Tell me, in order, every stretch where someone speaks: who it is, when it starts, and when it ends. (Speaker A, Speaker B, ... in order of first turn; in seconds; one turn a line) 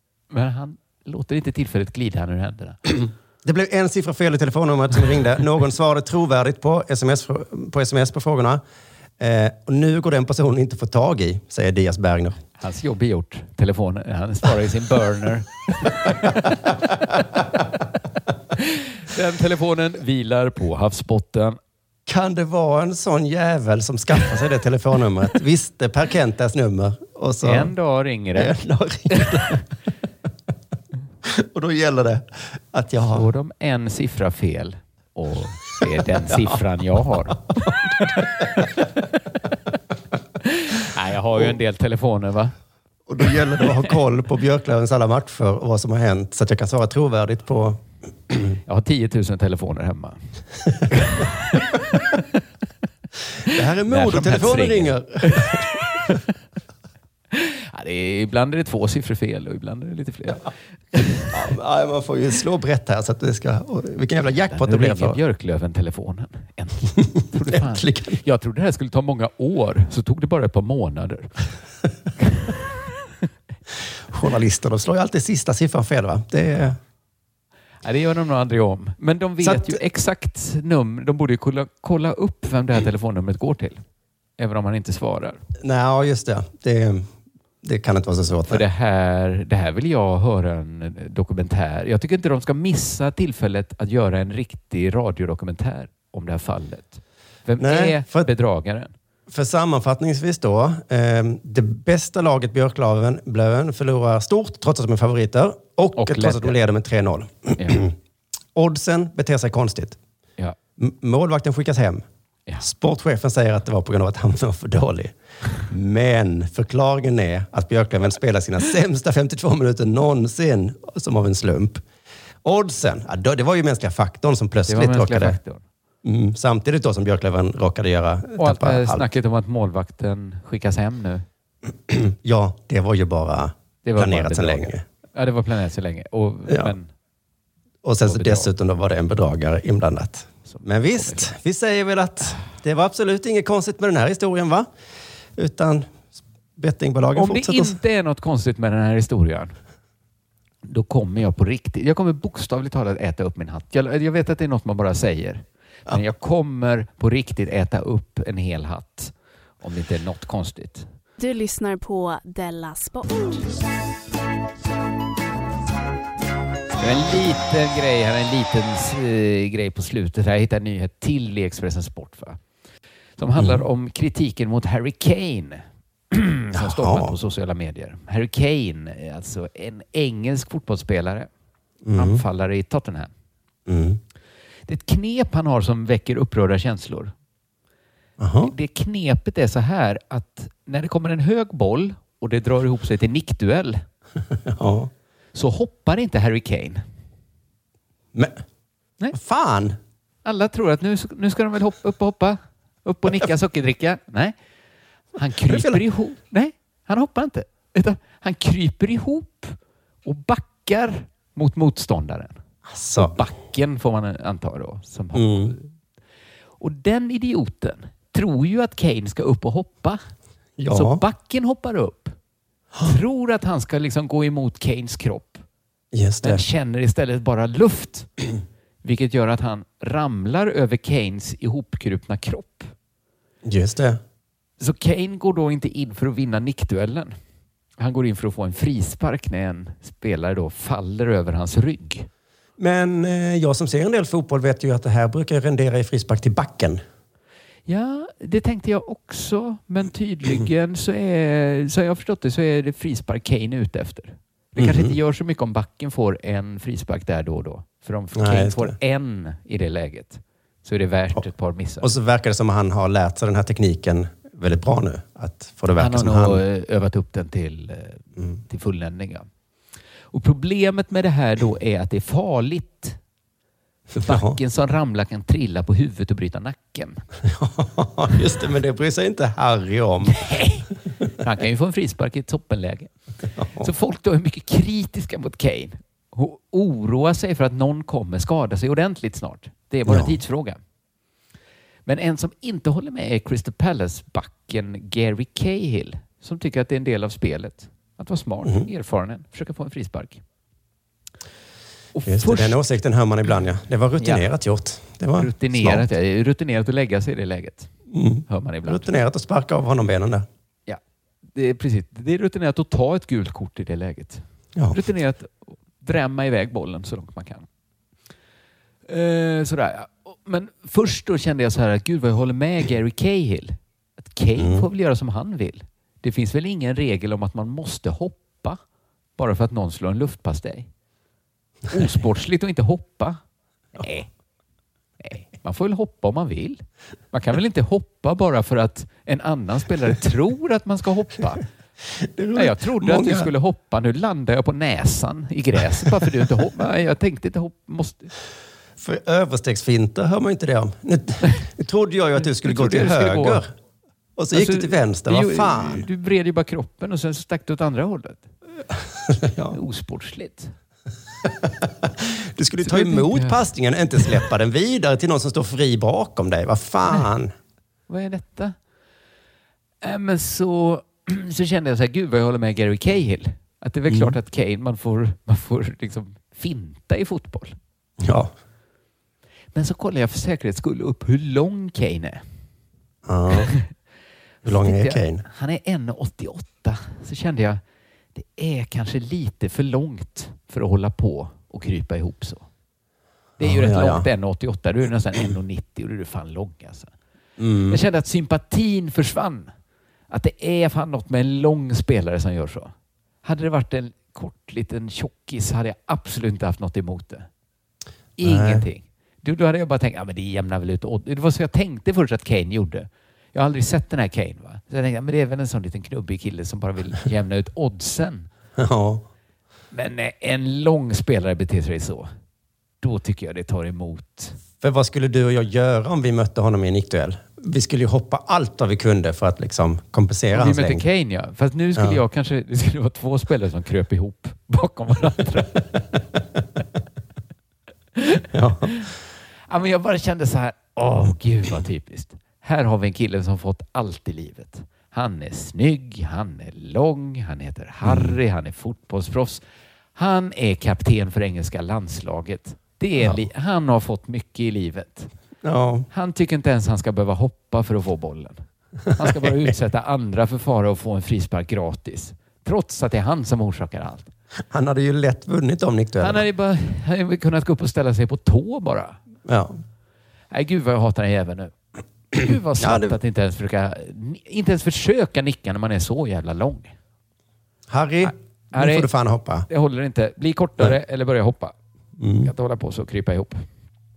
Speaker A: 0.3-2.8
Speaker B: 3.4-8.6
Speaker B: 9.2-12.4
Speaker A: 12.6-16.5
Speaker B: 16.1-16.5
Speaker A: 18.6-21.6
Speaker B: 22.1-27.7
Speaker A: 27.4-29.3
Speaker B: 28.4-29.6
Speaker B: 31.3-33.3
Speaker A: 33.1-37.4
Speaker B: 36.2-36.5
Speaker B: 37.6-38.6
Speaker A: 38.2-39.2
Speaker A: 40.4-42.5
Speaker B: 43.1-48.6
Speaker A: 43.3-43.9
Speaker A: 48.7-52.4
Speaker A: 53.5-56.2
Speaker B: 53.5-55.7
Speaker A: 57.3-61.3
Speaker B: 61.3-65.2
Speaker A: 64.5-71.5
Speaker B: 67.2-68.2
Speaker A: 72.2-72.6
Speaker B: 74.1-76.8
Speaker A: 77.8-83.8
Speaker B: 79.4-79.8
Speaker A: 84.4-85.4
Speaker B: 85.6-88.6
Speaker A: 88.5-98.9
Speaker B: 97.6-98.3
Speaker B: 99.3-108.0
Speaker A: 106.0-106.6
Speaker A: 107.6-107.8
Speaker B: 108.5-110.0
Speaker B: 110.8-112.0
Speaker B: 112.6-115.2
Speaker B: 115.7-121.8
Speaker B: 122.4-125.4
Speaker A: 124.7-125.6
Speaker B: 126.0-129.1
Speaker A: 128.4-131.2
Speaker B: 131.9-134.8
Speaker A: 133.8-136.9
Speaker B: 136.5-136.7
Speaker B: 137.8-144.7
Speaker A: 138.0-138.5
Speaker A: 140.5-141.3
Speaker B: 145.4-147.8
Speaker A: 147.2-149.6
Speaker A: 150.6-160.9
Speaker C: 161.2-163.4
Speaker A: 166.8-172.4
Speaker A: 173.2-181.3
Speaker B: 176.5-177.1
Speaker B: 181.8-182.2
Speaker A: 181.9-183.1
Speaker B: 183.7-184.0
Speaker A: 184.7-187.1
Speaker B: 188.2-188.5
Speaker A: 188.4-193.8
Speaker B: 194.4-194.9
Speaker A: 195.3-196.8
Speaker B: 198.1-198.4
Speaker B: 199.1-199.8
Speaker A: 200.2-204.4
Speaker A: 205.2-212.4
Speaker B: 205.5-205.8
Speaker B: 212.7-213.2
Speaker A: 213.0-215.7
Speaker B: 215.1-215.5
Speaker A: 216.6-220.0
Speaker B: 220.6-221.0
Speaker A: 220.7-222.2
Speaker A: 222.8-225.4
Speaker B: 225.9-226.4
Speaker A: 226.2-228.1
Speaker A: 228.8-232.7
Speaker B: 233.4-234.0
Speaker A: 234.6-237.2
Speaker A: 237.8-242.1
Speaker B: 242.6-246.8
Speaker A: 247.7-261.9
Speaker B: 254.6-254.9
Speaker B: 258.1-258.8
Speaker B: 261.8-266.4
Speaker A: 265.8-269.3
Speaker A: 270.1-273.0
Speaker B: 273.9-274.4
Speaker A: 274.0-277.0
Speaker B: 277.2-280.2
Speaker A: 280.1-282.9
Speaker B: 283.4-283.7
Speaker A: 283.6-290.6
Speaker B: 289.9-290.2
Speaker A: 291.9-300.2
Speaker A: 301.9-302.6
Speaker B: 302.1-305.9
Speaker A: 304.0-304.2
Speaker A: 305.2-307.7
Speaker B: 307.9-310.3
Speaker A: 308.3-308.9
Speaker A: 311.3-317.5
Speaker A: 318.9-328.6
Speaker B: 324.4-324.7
Speaker A: 329.2-330.7
Speaker A: 331.7-333.2
Speaker A: 333.8-334.1
Speaker A: 335.0-341.4
Speaker B: 342.0-343.3
Speaker A: 342.4-348.1
Speaker B: 348.8-353.5
Speaker A: 352.2-353.4
Speaker B: 354.2-355.9
Speaker A: 354.3-358.3
Speaker B: 358.7-359.6
Speaker A: 359.5-360.5
Speaker B: 361.2-367.3
Speaker A: 362.6-363.5
Speaker A: 367.9-368.6
Speaker A: 369.8-377.6
Speaker B: 373.9-374.2
Speaker B: 378.0-378.3
Speaker A: 379.5-382.2
Speaker B: 383.1-383.5
Speaker A: 383.4-383.7
Speaker A: 384.4-387.6
Speaker B: 384.4-385.2
Speaker A: 388.1-392.5
Speaker A: 393.4-396.9
Speaker B: 393.4-394.1
Speaker B: 397.4-397.8
Speaker A: 397.7-399.5
Speaker A: 400.1-402.7
Speaker A: 403.2-407.3
Speaker A: 408.2-418.3
Speaker B: 408.2-408.6
Speaker B: 418.6-419.0
Speaker A: 419.7-422.1
Speaker A: 422.8-424.4
Speaker B: 424.6-430.8
Speaker A: 430.3-435.7
Speaker B: 431.8-432.0
Speaker A: 438.0-438.9
Speaker B: 438.3-438.8
Speaker A: 439.5-449.4
Speaker B: 447.9-448.1
Speaker A: 450.0-455.1
Speaker B: 455.4-455.9
Speaker A: 455.9-464.1
Speaker B: 459.0-459.5
Speaker B: 464.5-466.2
Speaker A: 466.0-469.0
Speaker B: 469.3-469.6
Speaker A: 470.3-471.5
Speaker A: 472.1-476.8
Speaker B: 472.6-473.0
Speaker B: 477.7-479.5
Speaker A: 478.0-478.9
Speaker A: 479.5-481.5
Speaker B: 482.0-482.3
Speaker A: 482.2-483.4